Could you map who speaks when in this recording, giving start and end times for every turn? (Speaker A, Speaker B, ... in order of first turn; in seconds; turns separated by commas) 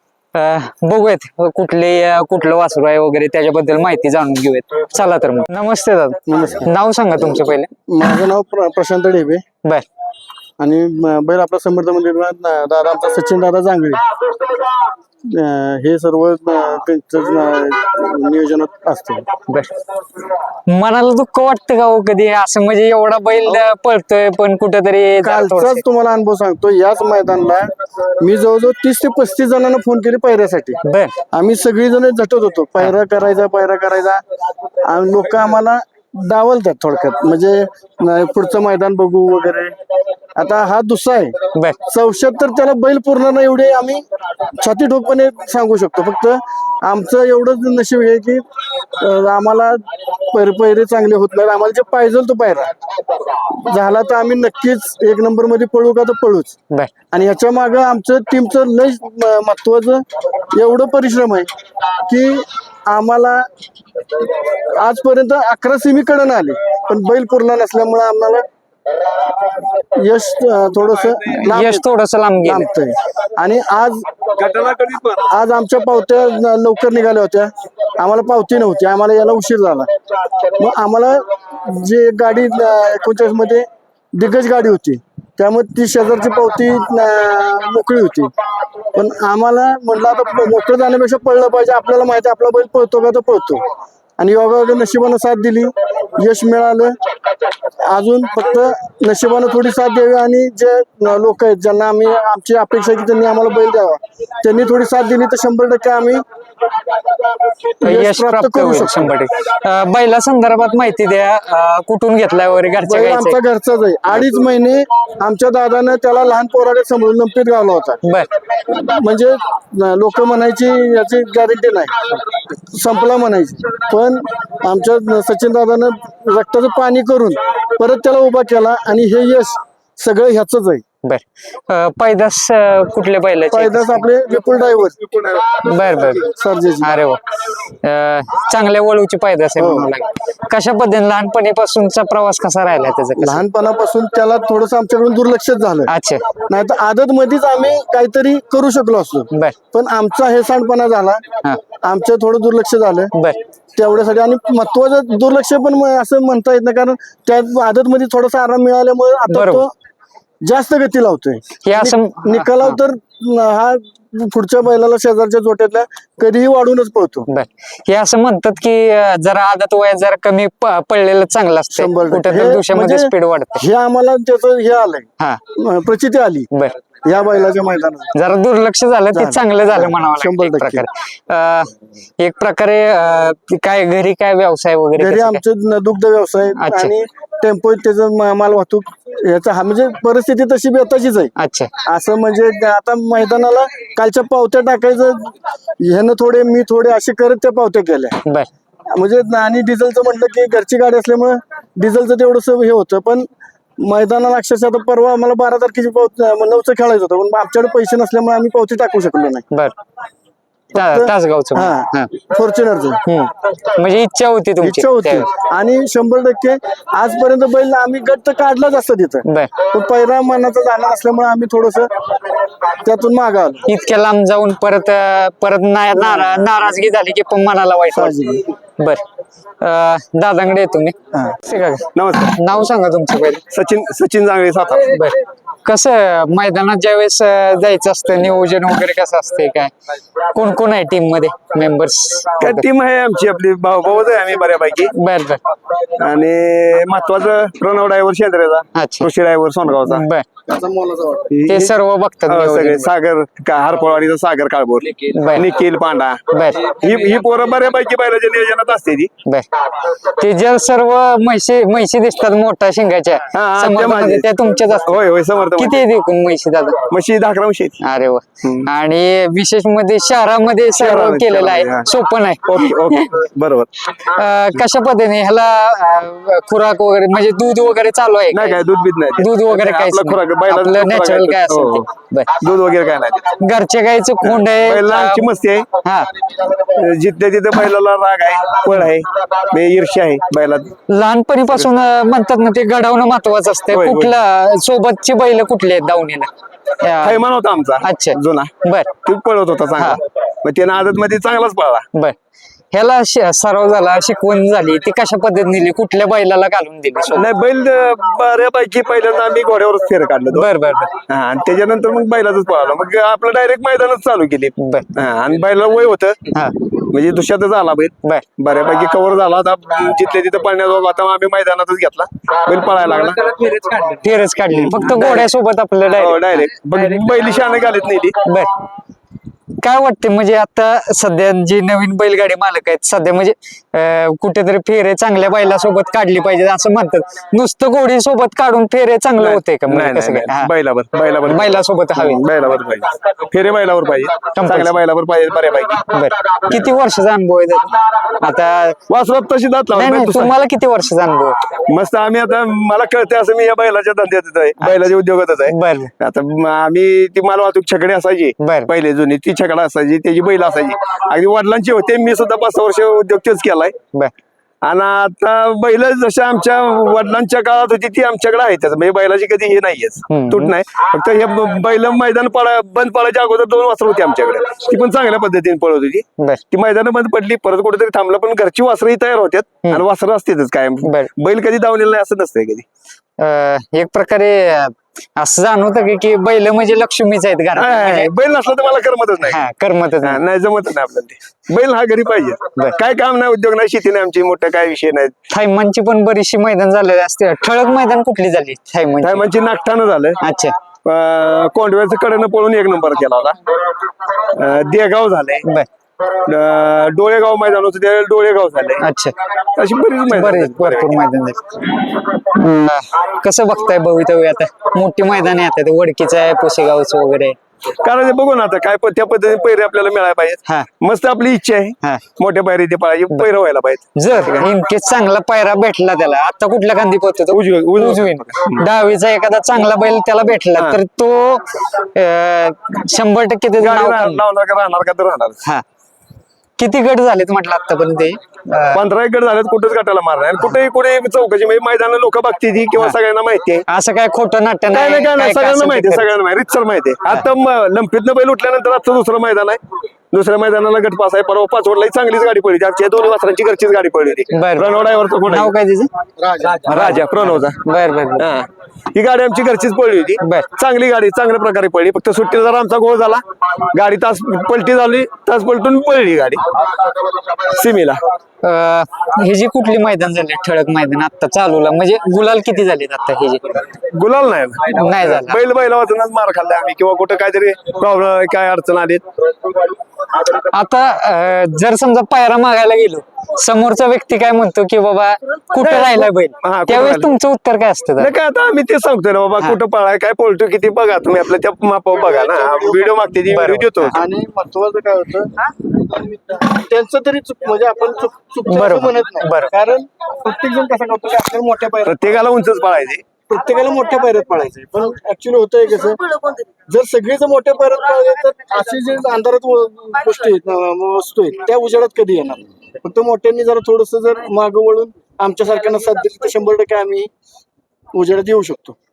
Speaker A: 0.3-7.7, Speaker B: 6.3-6.7, Speaker B: 7.9-9.4, Speaker B: 10.6-14.0, Speaker B: 15.3-19.3, Speaker A: 20.7-25.8, Speaker B: 25.2-27.7, Speaker B: 28.2-30.8, Speaker A: 30.8-31.1, Speaker B: 31.3-34.2, Speaker B: 34.9-39.8, Speaker B: 40.4-41.4, Speaker B: 41.9-44.0, Speaker B: 44.6-48.4, Speaker B: 49.0-52.7, Speaker B: 53.5-56.5, Speaker B: 57.1-61.5, Speaker B: 62.0-63.5, Speaker B: 64.8-68.5, Speaker B: 69.6-71.9, Speaker C: 71.0-71.4, Speaker A: 71.5-72.7, Speaker B: 72.4-74.1, Speaker C: 74.4-75.3, Speaker B: 75.3-79.9, Speaker B: 80.5-88.3, Speaker B: 88.9-93.6, Speaker B: 94.2-97.0, Speaker B: 97.8-106.2, Speaker B: 107.8-109.1, Speaker A: 107.8-113.4, Speaker B: 112.9-118.0, Speaker A: 118.0-118.3, Speaker B: 118.7-130.8, Speaker A: 131.0-134.1, Speaker B: 133.5-135.0, Speaker C: 135.1-135.6, Speaker A: 135.6-136.3, Speaker B: 136.2-136.9, Speaker A: 136.8-143.4, Speaker B: 139.6-139.9, Speaker B: 143.2-145.9, Speaker A: 145.9-146.3, Speaker B: 146.4-151.2, Speaker B: 151.8-153.1, Speaker A: 153.1-153.4, Speaker B: 153.8-159.7, Speaker A: 159.3-159.6, Speaker B: 160.4-167.3, Speaker A: 161.7-162.8, Speaker A: 167.3-173.6, Speaker B: 171.8-176.5, Speaker B: 177.0-178.1, Speaker A: 178.1-185.4, Speaker B: 179.1-180.8, Speaker B: 185.0-191.3, Speaker A: 186.6-186.9, Speaker A: 191.4-191.7, Speaker B: 191.8-198.2, Speaker B: 198.9-203.3, Speaker B: 203.8-209.4, Speaker A: 210.7-212.1, Speaker B: 210.7-213.0, Speaker A: 213.1-215.3, Speaker B: 214.6-221.9, Speaker A: 219.3-219.5, Speaker B: 222.8-223.7, Speaker A: 223.7-228.2, Speaker B: 226.0-226.4, Speaker B: 227.9-228.4, Speaker A: 229.6-233.4, Speaker C: 231.9-232.4, Speaker C: 233.5-235.0, Speaker A: 234.9-239.7, Speaker A: 240.3-242.6, Speaker C: 242.4-244.9, Speaker A: 244.9-245.4, Speaker C: 246.0-250.1, Speaker A: 248.8-249.1, Speaker A: 249.9-250.2, Speaker B: 250.5-251.3, Speaker C: 251.3-251.8, Speaker A: 251.5-252.9, Speaker C: 252.3-259.1, Speaker A: 255.1-255.5, Speaker A: 256.3-256.7, Speaker A: 259.3-265.0, Speaker C: 263.3-264.3, Speaker C: 264.8-265.8, Speaker A: 265.6-266.8, Speaker C: 266.9-267.8, Speaker A: 267.8-273.1, Speaker C: 270.8-271.9, Speaker C: 272.4-273.7, Speaker A: 274.0-278.6, Speaker C: 278.3-283.4, Speaker A: 279.2-282.3, Speaker A: 283.4-285.3, Speaker C: 284.2-285.7, Speaker A: 285.8-286.1, Speaker C: 286.6-290.7, Speaker A: 290.9-296.3, Speaker C: 293.7-294.2, Speaker A: 296.8-297.2, Speaker C: 297.0-298.5, Speaker A: 297.8-298.9, Speaker C: 299.0-301.9, Speaker A: 302.7-307.3, Speaker C: 307.1-310.5, Speaker A: 310.3-310.9, Speaker C: 311.1-316.2, Speaker A: 314.6-314.9, Speaker A: 316.3-316.6, Speaker C: 316.9-323.2, Speaker A: 322.8-326.5, Speaker C: 324.5-325.3, Speaker C: 326.0-328.1, Speaker A: 329.6-340.5, Speaker C: 339.2-345.9, Speaker A: 341.2-342.2, Speaker A: 344.4-344.7, Speaker A: 345.9-348.8, Speaker C: 348.9-350.3, Speaker A: 349.7-351.4, Speaker C: 351.7-363.8, Speaker A: 354.6-354.9, Speaker A: 355.5-355.9, Speaker A: 358.4-358.7, Speaker C: 364.6-382.6, Speaker A: 370.1-370.5, Speaker A: 380.8-381.1, Speaker A: 383.2-388.1, Speaker C: 387.6-389.4, Speaker A: 389.2-390.2, Speaker C: 390.0-395.1, Speaker A: 395.3-399.2, Speaker C: 399.0-400.2, Speaker A: 400.2-400.6, Speaker C: 400.9-403.4, Speaker C: 404.3-405.4, Speaker C: 406.3-408.8, Speaker A: 408.8-409.1, Speaker C: 409.6-411.0, Speaker A: 410.1-411.6, Speaker A: 412.2-417.4, Speaker C: 417.8-424.5, Speaker A: 424.0-434.2, Speaker C: 427.3-428.7, Speaker C: 433.6-435.4, Speaker A: 436.6-438.8, Speaker C: 438.7-443.6, Speaker A: 443.7-446.1, Speaker C: 444.7-449.6, Speaker C: 450.1-455.5, Speaker A: 454.3-454.7, Speaker A: 455.3-455.9, Speaker B: 456.2-456.8, Speaker C: 456.7-457.6, Speaker A: 456.7-458.3, Speaker C: 458.2-466.4, Speaker A: 460.2-460.5, Speaker C: 467.5-468.0, Speaker A: 468.4-473.6, Speaker C: 473.9-479.1, Speaker A: 474.7-475.4, Speaker A: 480.5-488.1, Speaker C: 485.6-487.1, Speaker C: 488.0-493.9, Speaker B: 492.2-492.9, Speaker A: 493.3-493.9, Speaker B: 493.9-501.9, Speaker A: 498.5-499.5, Speaker C: 501.9-503.0, Speaker B: 503.3-517.1, Speaker B: 518.0-518.8